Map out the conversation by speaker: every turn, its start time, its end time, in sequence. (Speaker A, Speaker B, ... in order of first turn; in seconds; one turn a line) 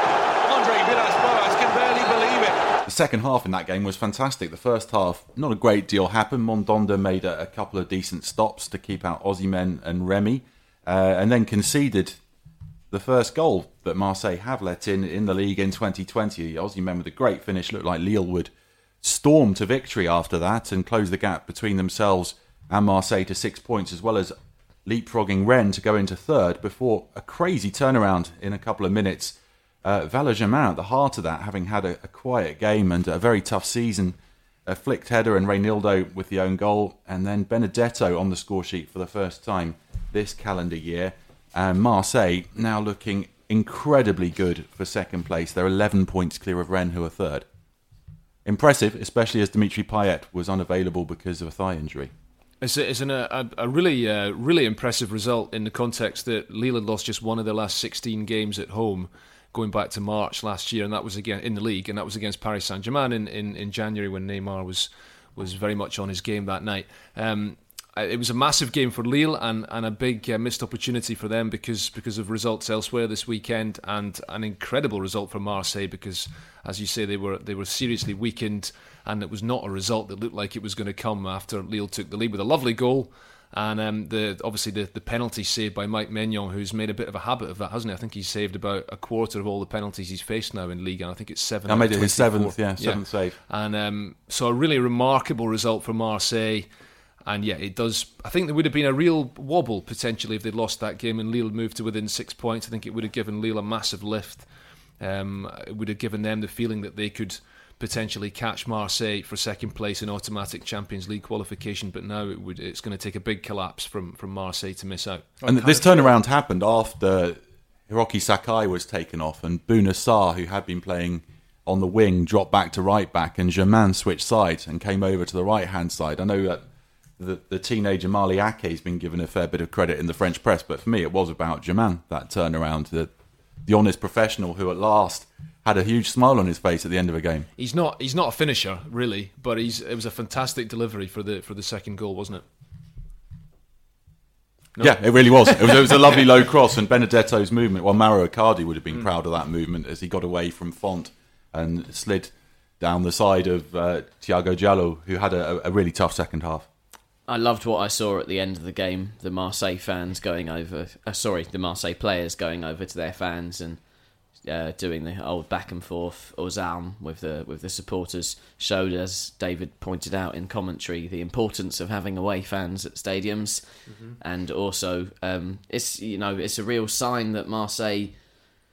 Speaker A: 0.4-2.6
Speaker B: 2.9-12.2
Speaker B: 12.9-18.5
Speaker B: 19.0-24.3
Speaker B: 24.9-47.5
Speaker B: 48.5-52.1
Speaker C: 52.6-96.7
Speaker B: 91.7-93.4
Speaker C: 97.3-104.5
Speaker C: 105.0-115.3
Speaker B: 115.5-126.6
Speaker B: 127.2-133.1
Speaker B: 133.7-137.5
Speaker C: 137.6-142.4
Speaker C: 144.8-146.0
Speaker B: 144.8-156.7
Speaker D: 157.3-163.8
Speaker D: 164.4-178.1